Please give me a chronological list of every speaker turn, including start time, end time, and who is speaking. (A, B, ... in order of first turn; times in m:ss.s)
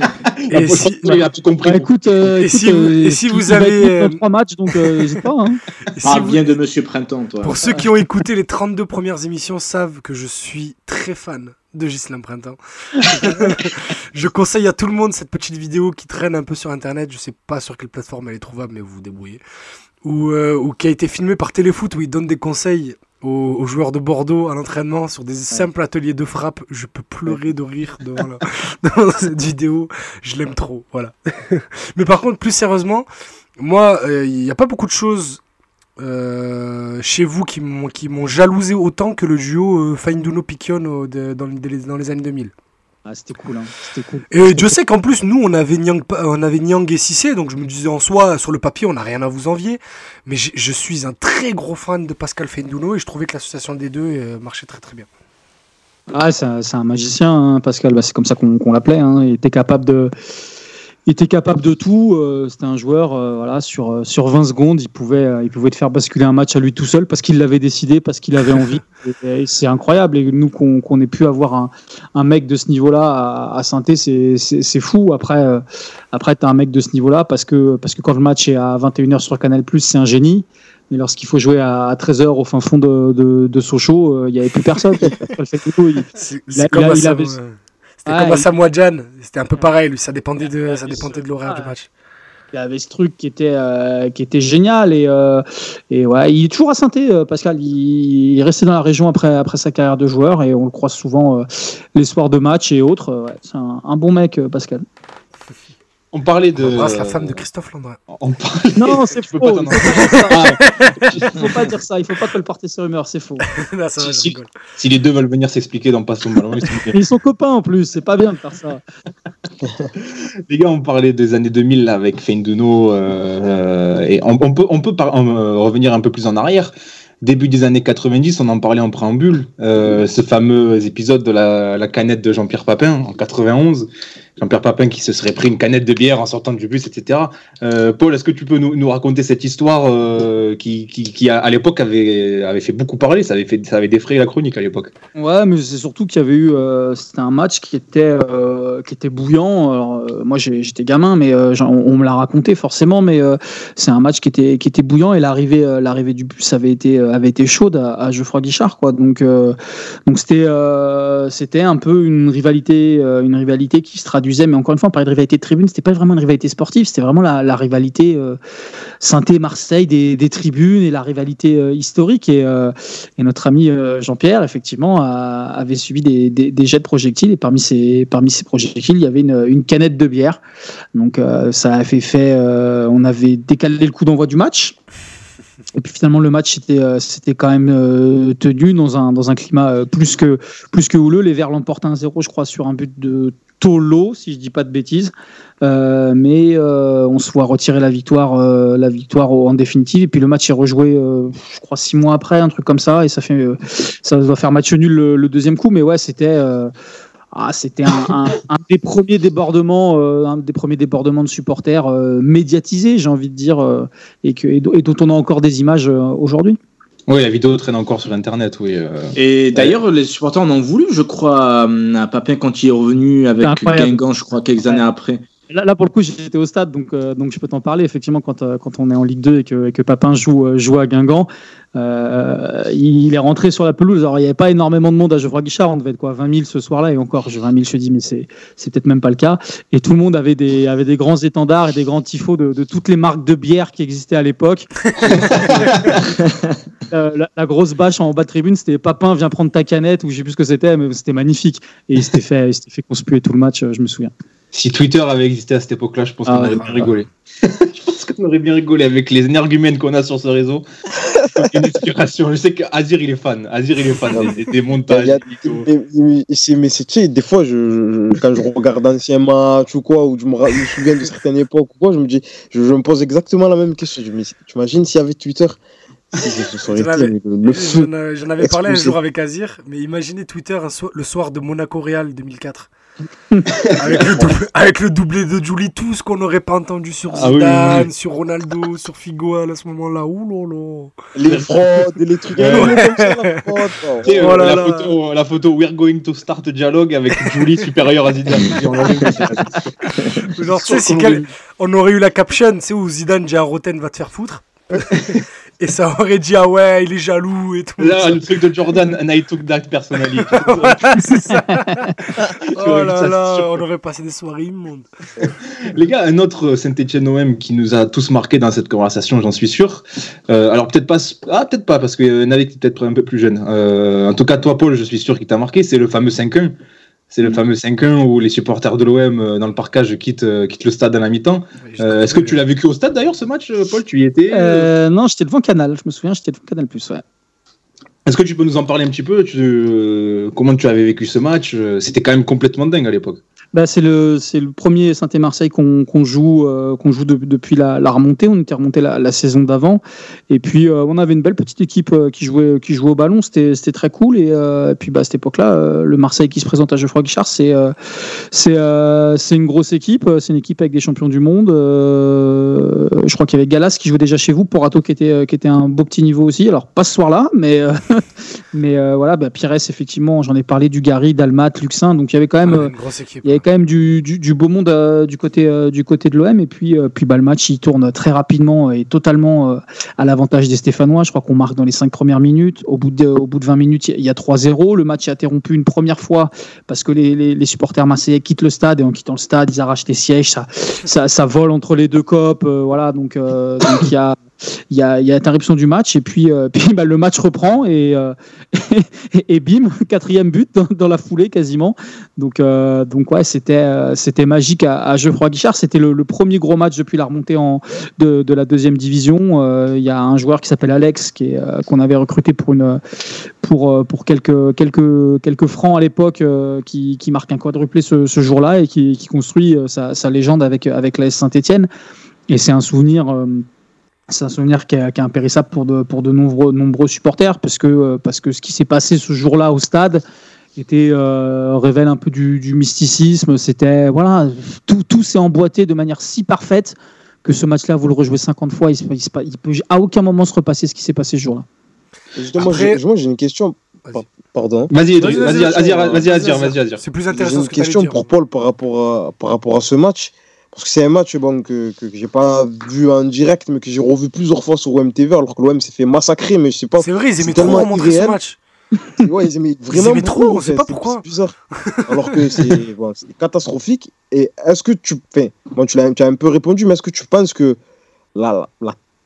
0:00.5-0:01.9 A
0:00.5-0:01.2 B
0:01.1-0:05.6 C
0:02.4-0:04.2 B
0:06.0-0:06.5 B
0:06.0-0:07.5 D
0:07.4-0:19.4 B
0:20.0-0:33.0 B
0:33.6-0:35.4 B
0:36.0-0:42.5 B
0:43.0-0:44.7 C
0:44.3-0:55.1 B
0:56.1-1:00.1 C
1:01.1-1:27.4 C
1:26.2-1:31.9 B
1:28.0-1:28.5 C
1:30.4-1:31.7 C
1:32.5-1:44.8 C
1:46.1-1:47.4 A
1:46.6-1:48.0 B
1:48.1-1:51.6 A
1:48.8-1:50.5 C
1:49.7-1:51.1 B
1:51.2-1:53.4 C
1:53.6-1:54.6 B
1:54.0-1:57.0 A
1:56.9-1:58.8 C
2:00.0-2:24.9 A
2:25.2-2:39.6 C
2:40.1-2:48.4 C
2:49.0-3:00.4 C
3:00.9-3:04.8 C
3:05.7-3:26.7 C
3:27.3-3:36.6 C
3:37.1-3:39.8 A
3:39.2-3:45.2 D
3:43.4-3:44.0 C
3:45.5-4:04.7 C
4:06.9-4:14.1 C
4:14.5-4:20.6 A
4:16.3-4:16.9 C
4:16.4-4:17.0 B
4:21.3-4:25.7 A
4:24.9-4:35.6 E
4:36.1-4:37.9 E
4:36.7-4:42.7 B
4:38.4-4:39.0 E
4:43.8-4:50.9 B
4:43.8-4:44.1 A
4:43.9-4:44.3 E
4:47.1-4:47.9 A
4:51.2-4:54.5 E
4:52.4-4:52.8 A
4:52.5-4:54.9 B
4:54.0-4:59.7 A
5:00.3-5:08.2 B
5:00.4-5:01.2 A
5:07.8-5:10.9 A
5:10.1-5:14.8 B
5:11.5-5:11.9 C
5:12.4-5:13.6 A
5:15.4-5:26.5 A
5:27.1-5:34.7 A
5:31.6-5:32.4 B
5:34.3-5:37.0 C
5:38.0-5:43.2 A
5:43.5-5:57.7 C
5:58.3-6:08.0 C
6:08.5-6:12.7 C
6:12.4-6:13.4 B
6:13.2-6:34.2 C
6:34.7-6:52.8 C
6:53.4-7:01.7 C
7:02.3-7:03.4 C
7:04.1-7:10.0 C
7:10.6-7:21.4 C
7:22.1-7:26.0 E
7:22.3-7:22.8 B
7:24.7-7:26.8 A
7:25.0-7:28.0 B
7:27.1-7:38.2 E
7:36.8-7:38.4 B
7:39.0-7:41.4 E
7:39.7-7:41.0 B
7:41.7-7:42.5 B
7:41.9-7:47.6 E
7:48.1-7:48.8 E